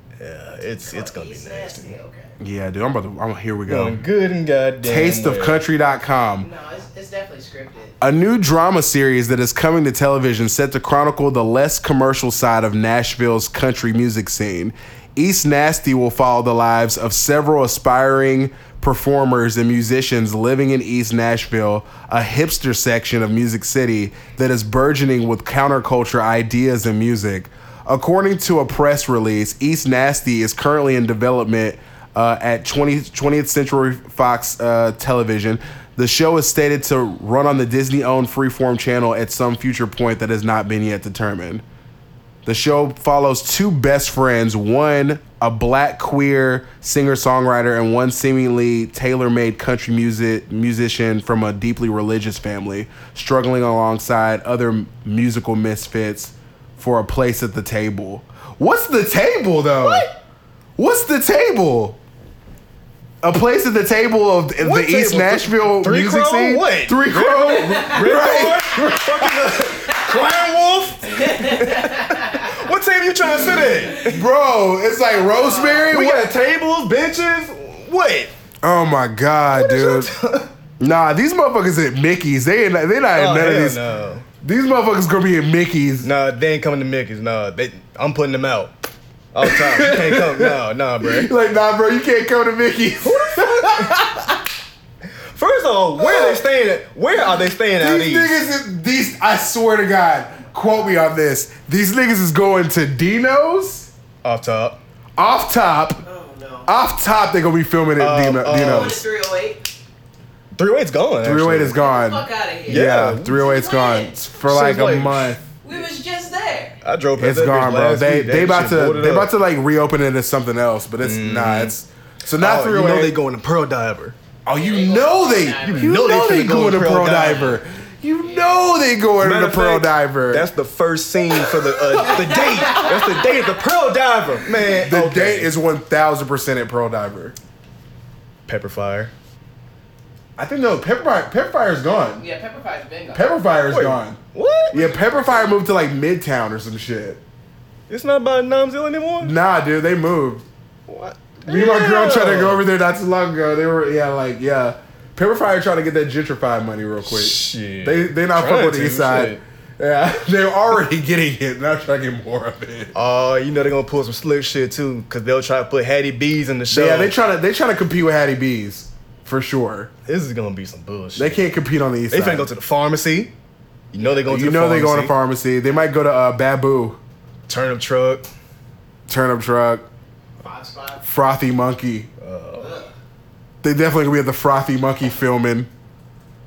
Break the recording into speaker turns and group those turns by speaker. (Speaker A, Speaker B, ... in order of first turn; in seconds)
Speaker A: 0.2-2.0, 3.7-5.6, 59.8-60.1, 64.6-74.2, 75.9-78.3, 79.5-80.5, 83.2-84.3, 86.0-88.7, 89.3-91.3, 93.0-94.0, 95.3-98.4, 104.2-104.8, 108.0-109.0, 110.5-111.8, 112.7-113.5, 114.4-115.3, 116.8-119.3, 121.0-121.7, 122.4-124.2, 125.6-127.6, 129.2-135.5, 138.5-139.1, 143.7-144.8, 147.9-149.3, 150.9-152.7, 157.0-159.4, 162.9-167.1, 170.1-171.5, 172.1-173.3, 173.9-175.1, 177.5-178.3, 182.2-182.8
Speaker B: 0.8-2.4, 6.4-8.0, 71.4-72.4, 75.2-75.9, 106.0-106.7, 108.5-109.7, 111.8-114.2, 115.6-116.8, 124.5-125.9, 131.9-133.3, 142.0-143.3, 144.8-145.6, 180.4-181.0, 182.6-182.9
Speaker C: 2.4-4.0, 4.8-6.5, 8.0-41.6, 42.5-60.1, 60.8-62.0, 63.2-69.5, 74.0-76.3, 78.6-80.1, 80.8-83.8, 84.4-86.1, 89.4-94.4, 96.0-96.4, 97.8-103.9, 105.2-106.0, 106.7-109.0, 111.2-115.4, 117.2-123.2, 124.5-130.5, 134.8-137.4, 140.4-142.2, 143.1-144.2, 144.7-147.2, 149.2-150.5, 151.4-162.9, 166.7-169.9, 171.2-172.5, 174.3-177.0, 179.1-179.8, 181.0-182.1, 183.6-185.7